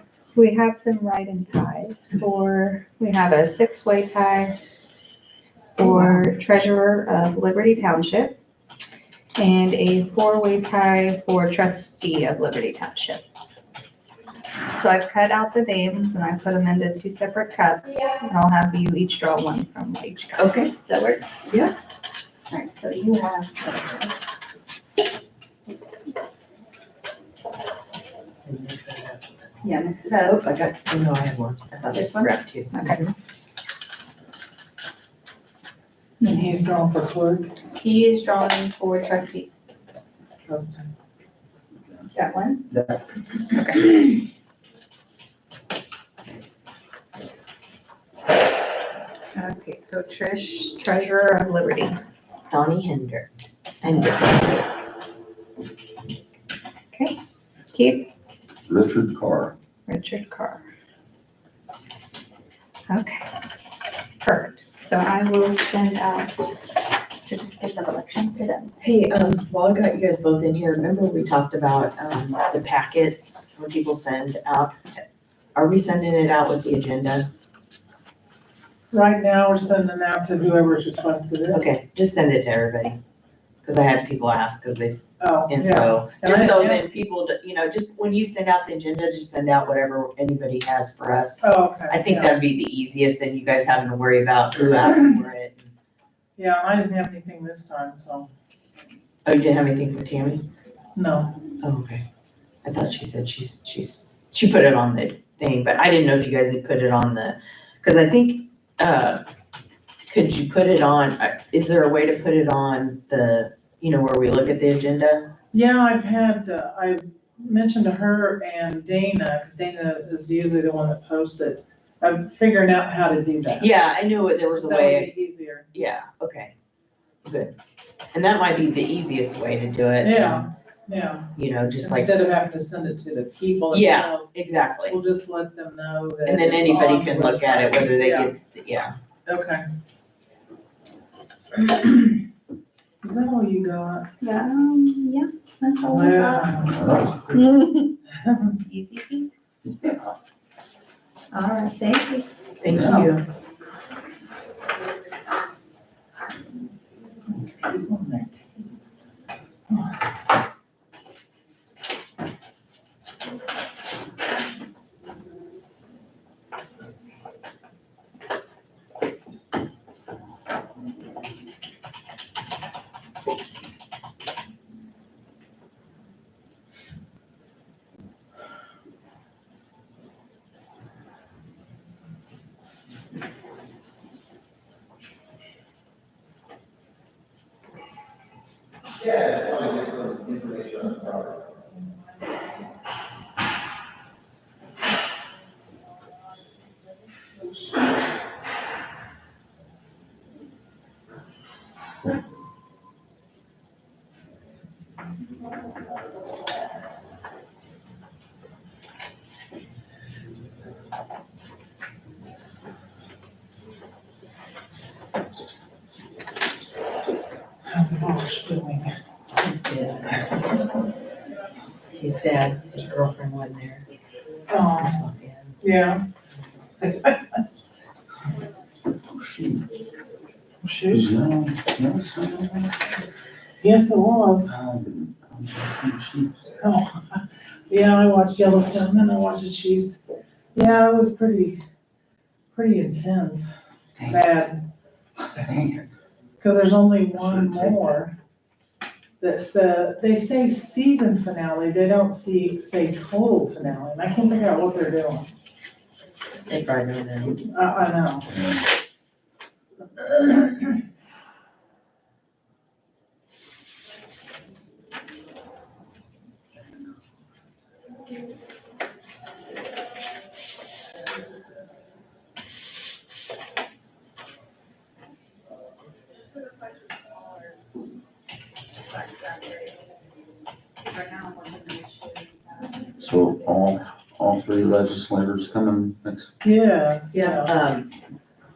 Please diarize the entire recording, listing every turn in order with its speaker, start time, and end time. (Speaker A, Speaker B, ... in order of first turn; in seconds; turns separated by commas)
Speaker A: 0.3-4.6, Speaker A: 5.8-8.4, Speaker A: 9.4-13.2, Speaker A: 14.7-21.5, Speaker B: 20.4-20.7, Speaker B: 21.5-21.7, Speaker A: 22.5-24.2, Speaker B: 28.4-29.6, Speaker A: 29.6-30.6, Speaker B: 30.3-33.1, Speaker A: 31.9-33.0, Speaker C: 36.2-37.5, Speaker A: 37.8-39.5, Speaker C: 40.5-40.9, Speaker A: 42.1-42.7, Speaker A: 43.5-44.0, Speaker A: 49.3-52.0, Speaker B: 52.5-53.3, Speaker B: 53.8-54.6, Speaker A: 56.9-57.2, Speaker A: 57.7-58.1, Speaker D: 58.7-59.5, Speaker A: 59.9-60.6, Speaker A: 62.9-63.3, Speaker A: 64.2-66.7, Speaker A: 67.2-68.7, Speaker B: 68.8-75.0, Speaker B: 75.5-77.3, Speaker C: 78.9-81.6, Speaker B: 81.5-83.0, Speaker B: 83.6-95.7, Speaker C: 85.2-86.8, Speaker C: 91.4-92.4, Speaker C: 96.4-98.3, Speaker B: 99.2-100.5, Speaker C: 101.0-101.4, Speaker B: 101.6-102.0, Speaker B: 102.6-109.2, Speaker B: 110.1-115.3, Speaker C: 115.5-123.7, Speaker B: 123.6-125.2, Speaker C: 124.5-125.7, Speaker B: 125.7-126.5, Speaker B: 127.2-127.5, Speaker B: 128.1-130.4, Speaker C: 130.0-134.3, Speaker B: 131.4-132.1, Speaker B: 133.7-135.0, Speaker C: 134.9-138.3, Speaker B: 136.3-138.9, Speaker C: 139.3-139.6, Speaker C: 141.6-142.2, Speaker C: 143.0-144.1, Speaker A: 144.2-146.5, Speaker C: 145.8-147.0, Speaker D: 146.7-147.4, Speaker A: 147.3-148.0, Speaker C: 148.1-148.6, Speaker A: 148.6-149.3, Speaker D: 149.7-150.1, Speaker A: 151.3-152.3, Speaker B: 152.6-153.2, Speaker D: 152.7-153.1, Speaker C: 157.3-158.4, Speaker C: 217.7-218.9, Speaker B: 219.4-220.4, Speaker B: 221.9-223.8, Speaker C: 224.5-225.0, Speaker B: 224.6-225.6, Speaker C: 225.6-226.0, Speaker C: 226.8-227.4, Speaker D: 229.1-229.7, Speaker C: 230.6-231.1, Speaker D: 230.9-232.8, Speaker C: 233.6-234.5, Speaker D: 234.5-236.5, Speaker C: 236.6-240.0, Speaker C: 240.6-241.6, Speaker C: 242.6-243.5, Speaker C: 244.1-244.7, Speaker D: 245.2-245.9, Speaker C: 246.4-248.2, Speaker D: 247.1-247.8, Speaker C: 249.2-255.3, Speaker B: 256.5-257.4, Speaker C: 257.5-258.3, Speaker D: 258.3-258.6, Speaker C: 260.0-260.8, Speaker A: 276.9-277.4, Speaker A: 279.0-279.8, Speaker A: 280.9-282.5, Speaker D: 283.0-286.3, Speaker C: 286.4-287.6, Speaker B: 287.1-287.9